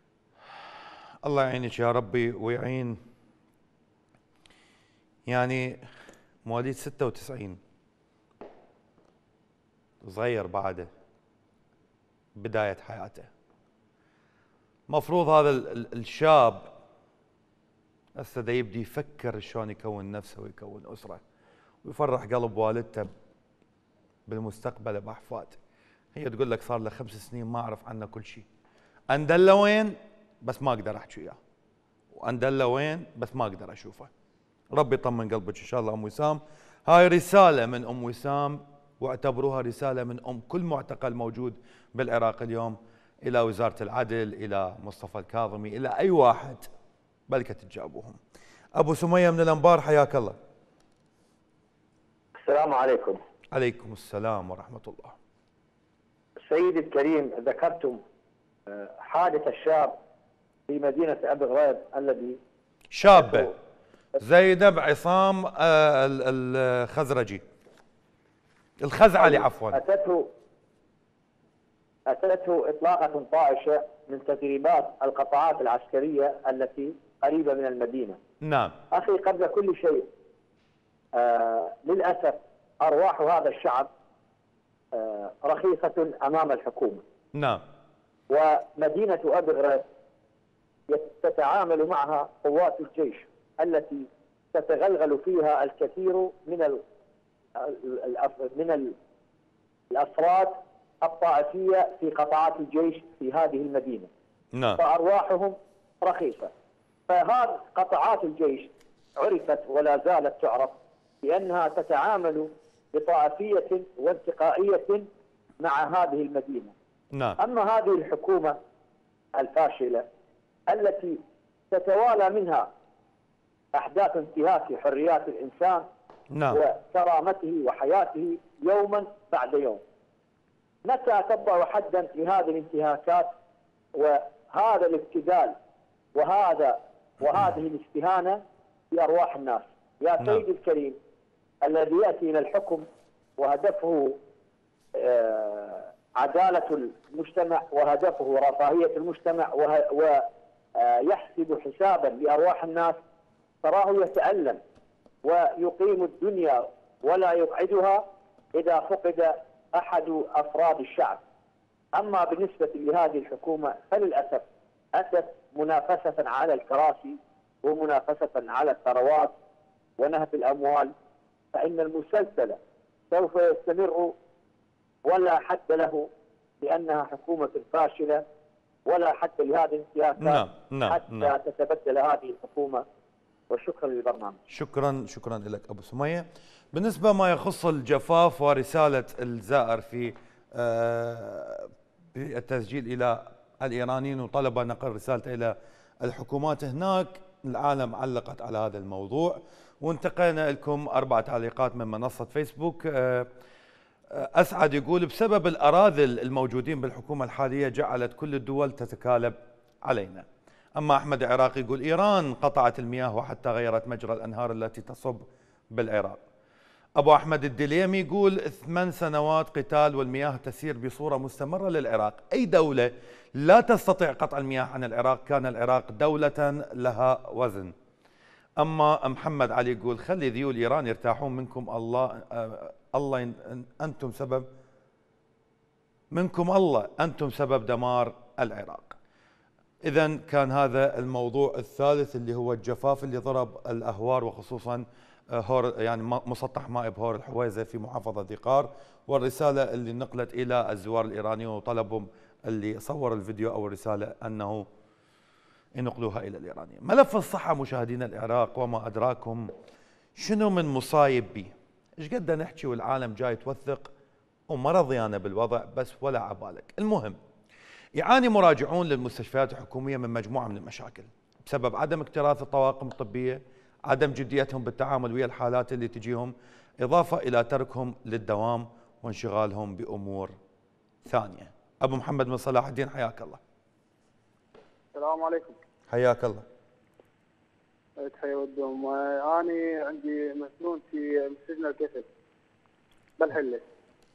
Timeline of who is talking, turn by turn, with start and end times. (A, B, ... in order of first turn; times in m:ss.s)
0:01.2-0:03.0 A
0:05.3-0:05.8 A
0:06.5-0:07.6 A
0:10.0-0:10.9 A
0:12.4-0:13.3 A
0:14.9-0:16.7 A
0:18.2-0:21.2 A
0:21.8-0:23.1 A
0:24.3-0:25.6 A
0:26.2-0:28.5 A
0:29.1-0:31.4 A
0:32.1-0:34.1 A
0:34.7-0:46.7 A
0:47.3-0:48.2 A
0:48.8-0:50.4 A
0:52.4-0:53.2 B
0:53.5-0:55.2 A
0:56.5-0:58.0 B
0:58.7-1:00.0 B
1:00.7-1:02.4 B
1:02.9-1:03.5 A
1:03.1-1:03.5 B
1:04.2-1:07.4 A
1:08.8-1:09.8 A
1:09.2-1:10.3 B
1:12.1-1:18.2 B
1:18.4-1:18.8 A
1:18.9-1:20.1 B
1:21.2-1:23.9 B
1:24.9-1:27.0 B
1:27.3-1:27.6 A
1:28.3-1:29.8 B
1:30.9-1:36.8 B
1:37.6-1:39.0 B
1:39.9-1:44.1 B
1:44.5-1:44.8 A
1:44.8-1:46.5 B
1:47.1-1:55.1 B
1:55.6-1:56.7 B
1:57.4-1:58.6 B
1:59.4-2:00.1 B
2:00.7-2:01.2 B
2:01.7-2:02.7 B
2:03.8-2:05.9 B
2:06.3-2:06.6 A
2:06.5-2:09.8 B
2:10.8-2:13.3 B
2:14.0-2:15.6 B
2:16.2-2:21.0 B
2:21.6-2:22.8 B
2:23.4-2:24.2 B
2:25.0-2:33.0 B
2:33.6-2:34.6 B
2:35.2-2:41.2 B
2:41.9-2:49.4 B
2:50.0-2:50.9 B
2:51.5-2:52.6 B
2:53.1-2:54.1 B
2:55.1-2:56.1 B
2:56.6-2:58.2 B
2:58.9-3:02.8 B
3:00.2-3:01.3 A
3:03.5-3:04.4 B
3:04.5-3:23.3 A
3:24.2-3:36.2 A
3:37.0-3:47.7 A
3:48.6-3:54.5 A
3:56.1-3:59.0 A
3:59.8-4:14.7 A
4:15.8-4:19.5 A
4:20.2-4:23.9 A
4:24.5-4:27.2 A
4:28.0-4:40.3 A
4:41.1-4:43.4 A
4:44.9-4:45.6 C
4:45.9-4:46.4 A
4:48.0-4:52.1 C
4:53.2-4:53.6 C